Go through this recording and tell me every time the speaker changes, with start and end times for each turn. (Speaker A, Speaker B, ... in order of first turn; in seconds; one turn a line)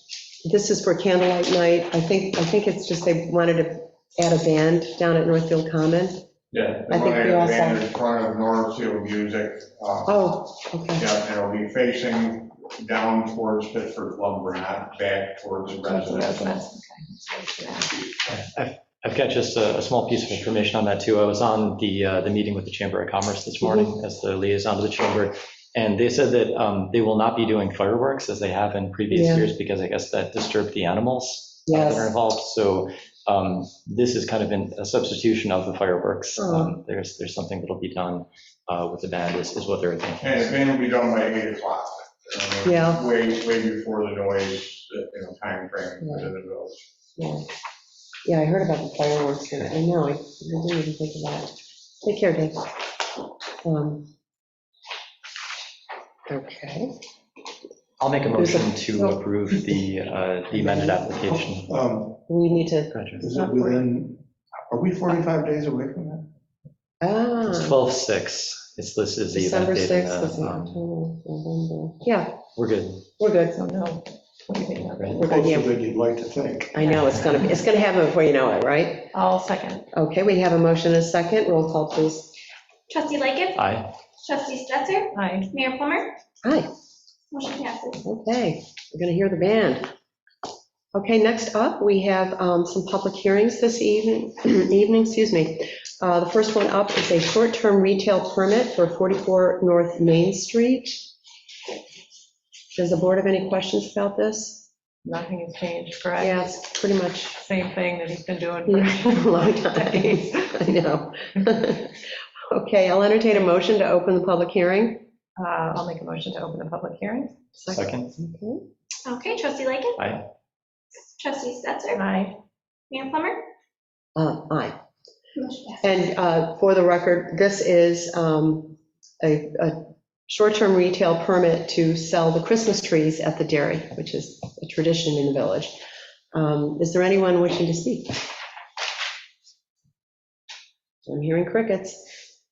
Speaker A: 0.4-6.2
Speaker B: 6.5-10.1
Speaker A: 6.9-7.8
Speaker A: 10.1-11.1
Speaker B: 10.9-16.6
Speaker C: 15.8-17.9
Speaker D: 18.3-40.5
Speaker A: 23.6-23.9
Speaker A: 29.1-29.5
Speaker A: 31.7-32.1
Speaker A: 36.4-36.7
Speaker B: 40.2-46.8
Speaker A: 42.6-43.0
Speaker A: 46.0-46.3
Speaker A: 47.2-47.4
Speaker A: 48.2-52.6
Speaker A: 53.6-54.1
Speaker A: 56.3-56.9
Speaker D: 58.0-61.7
Speaker A: 58.4-59.2
Speaker E: 60.8-62.2
Speaker A: 62.3-63.8
Speaker D: 62.9-63.2
Speaker E: 63.2-66.3
Speaker A: 67.0-67.8
Speaker D: 67.5-70.8
Speaker A: 69.3-72.4
Speaker D: 72.5-73.0
Speaker A: 73.2-73.6
Speaker C: 73.5-75.2
Speaker D: 74.9-75.2
Speaker A: 75.2-75.7
Speaker E: 75.2-77.0
Speaker A: 76.7-79.1
Speaker C: 76.8-77.2
Speaker C: 79.1-79.9
Speaker A: 79.9-82.3
Speaker F: 82.9-83.6
Speaker D: 83.5-83.9
Speaker F: 84.2-86.2
Speaker C: 85.1-85.5
Speaker F: 87.3-88.0
Speaker A: 88.0-89.9
Speaker A: 90.9-101.1
Speaker A: 102.7-104.7
Speaker C: 105.0-106.5
Speaker A: 106.2-107.4
Speaker C: 107.3-110.3
Speaker A: 108.7-115.0
Speaker C: 115.4-117.4
Speaker A: 117.5-118.6
Speaker D: 117.7-118.1
Speaker F: 119.0-120.0
Speaker D: 120.0-120.3
Speaker F: 121.2-122.0
Speaker C: 121.9-122.3
Speaker F: 122.9-123.5
Speaker A: 124.2-124.8
Speaker F: 125.4-125.8
Speaker A: 125.8-135.8
Speaker A: 136.3-138.2
Speaker A: 141.1-142.1